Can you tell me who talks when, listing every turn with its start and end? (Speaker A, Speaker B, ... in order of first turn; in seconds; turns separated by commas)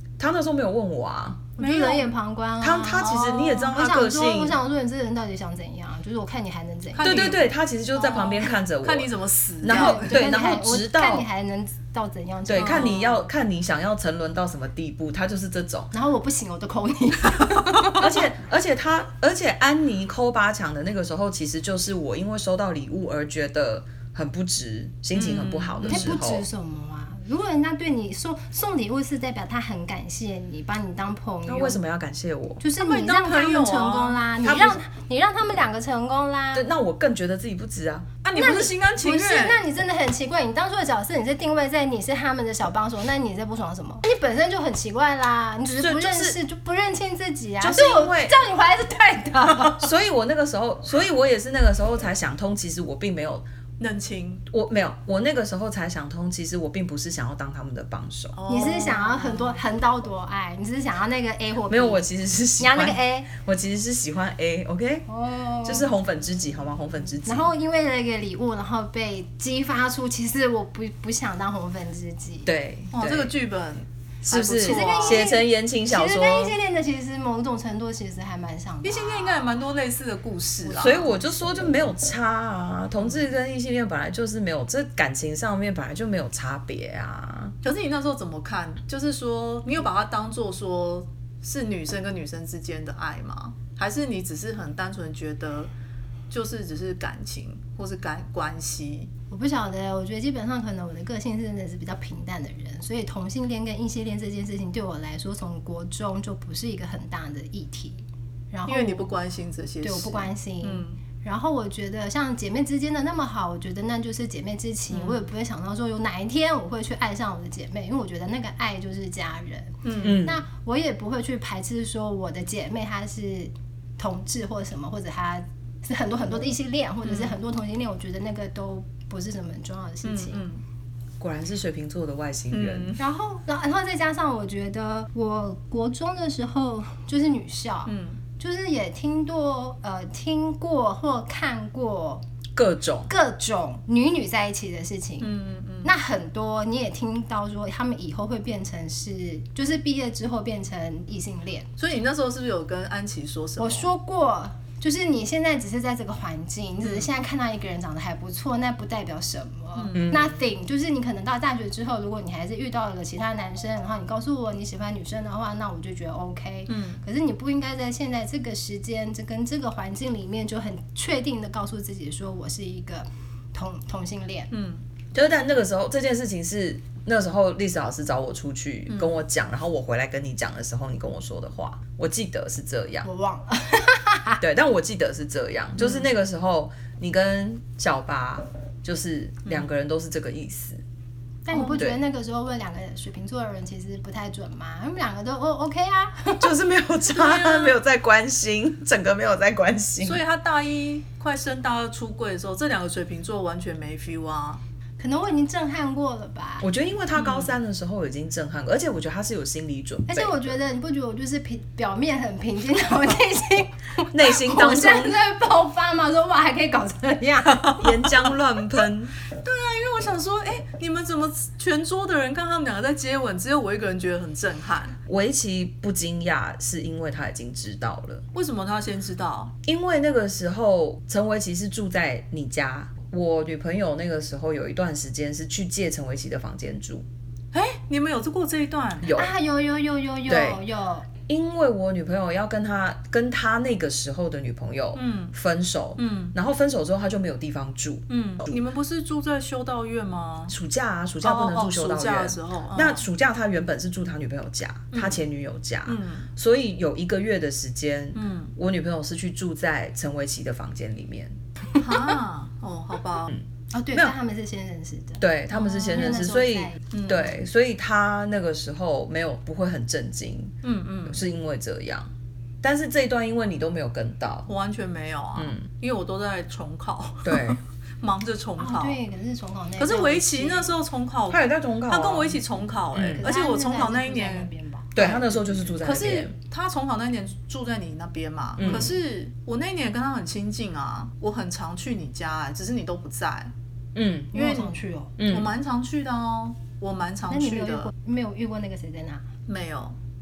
Speaker A: 0.2-1.5, Speaker B: 1.6-7.4, Speaker C: 1.6-2.1, Speaker A: 2.6-4.6, Speaker C: 3.0-3.4, Speaker C: 6.9-10.2, Speaker A: 7.0-9.1, Speaker A: 9.6-11.2, Speaker B: 9.7-13.2, Speaker A: 12.4-15.9, Speaker C: 12.6-13.2, Speaker B: 15.9-18.1, Speaker A: 18.0-26.5, Speaker C: 25.1-26.1, Speaker B: 25.8-31.8, Speaker A: 31.5-32.6, Speaker B: 32.6-36.7, Speaker C: 32.8-34.2, Speaker A: 34.4-34.8, Speaker A: 36.5-38.1, Speaker C: 38.2-39.6, Speaker B: 38.3-49.9, Speaker A: 45.8-46.4, Speaker A: 47.6-48.4, Speaker A: 49.8-53.4, Speaker C: 53.8-54.4, Speaker A: 54.5-58.4, Speaker C: 58.3-59.6, Speaker B: 58.5-62.1, Speaker A: 61.7-65.1, Speaker B: 62.6-63.3, Speaker B: 65.1-65.9, Speaker A: 65.6-67.5, Speaker B: 67.2-72.5, Speaker A: 72.5-73.3, Speaker C: 72.9-75.3, Speaker A: 74.2-76.5, Speaker B: 74.6-79.5, Speaker C: 78.8-81.0, Speaker B: 80.6-81.8, Speaker A: 80.8-87.5, Speaker C: 87.6-95.7, Speaker C: 96.3-99.1, Speaker B: 99.3-109.1, Speaker C: 108.7-111.0, Speaker B: 109.8-130.4, Speaker C: 114.9-115.3, Speaker C: 119.8-120.2, Speaker A: 120.0-120.4, Speaker C: 127.0-127.4, Speaker C: 130.0-130.6, Speaker A: 131.2-132.9, Speaker C: 132.5-133.0, Speaker B: 133.0-142.2, Speaker C: 137.9-138.2, Speaker A: 142.6-143.1, Speaker B: 143.1-151.7, Speaker C: 145.2-145.9, Speaker C: 151.8-153.9, Speaker B: 153.6-174.5, Speaker C: 156.8-157.1, Speaker C: 159.8-160.2, Speaker A: 159.9-160.3, Speaker C: 166.7-167.0, Speaker C: 174.5-174.8, Speaker A: 175.1-183.1, Speaker C: 178.9-179.2, Speaker B: 183.0-184.4, Speaker A: 184.4-190.8, Speaker C: 185.8-186.1, Speaker B: 191.4-196.5, Speaker C: 191.5-191.8, Speaker A: 196.4-200.2, Speaker C: 197.1-197.8, Speaker C: 200.0-204.6, Speaker B: 205.0-206.7, Speaker A: 206.6-210.5, Speaker C: 207.2-207.6, Speaker B: 210.1-218.1, Speaker A: 214.1-215.2, Speaker A: 217.8-219.2, Speaker C: 219.4-224.9, Speaker A: 225.1-228.2, Speaker C: 228.3-229.5, Speaker A: 229.7-237.1, Speaker C: 237.5-239.1, Speaker A: 239.0-239.3, Speaker B: 239.1-241.1, Speaker A: 240.3-240.6, Speaker A: 241.3-248.6, Speaker C: 244.9-245.3, Speaker C: 246.0-246.3, Speaker C: 248.1-250.6, Speaker A: 250.5-261.3, Speaker C: 251.2-253.1, Speaker C: 254.9-255.2, Speaker C: 255.8-256.3, Speaker C: 258.1-258.5, Speaker C: 261.7-263.3, Speaker A: 263.3-264.1, Speaker B: 263.7-266.8, Speaker A: 265.2-270.5, Speaker C: 266.9-267.4, Speaker C: 270.6-271.2, Speaker A: 271.1-272.1, Speaker A: 272.6-274.5, Speaker C: 274.5-279.0, Speaker A: 275.4-275.7, Speaker A: 277.2-277.6, Speaker B: 278.6-280.8, Speaker C: 279.8-285.2, Speaker A: 281.3-282.4, Speaker A: 282.9-283.3, Speaker B: 283.2-285.7, Speaker A: 284.9-286.3, Speaker C: 285.8-293.5, Speaker A: 288.6-289.0, Speaker A: 293.9-294.3, Speaker B: 294.3-295.1, Speaker C: 294.3-297.9, Speaker A: 295.2-295.5, Speaker B: 297.3-299.2, Speaker C: 299.5-299.9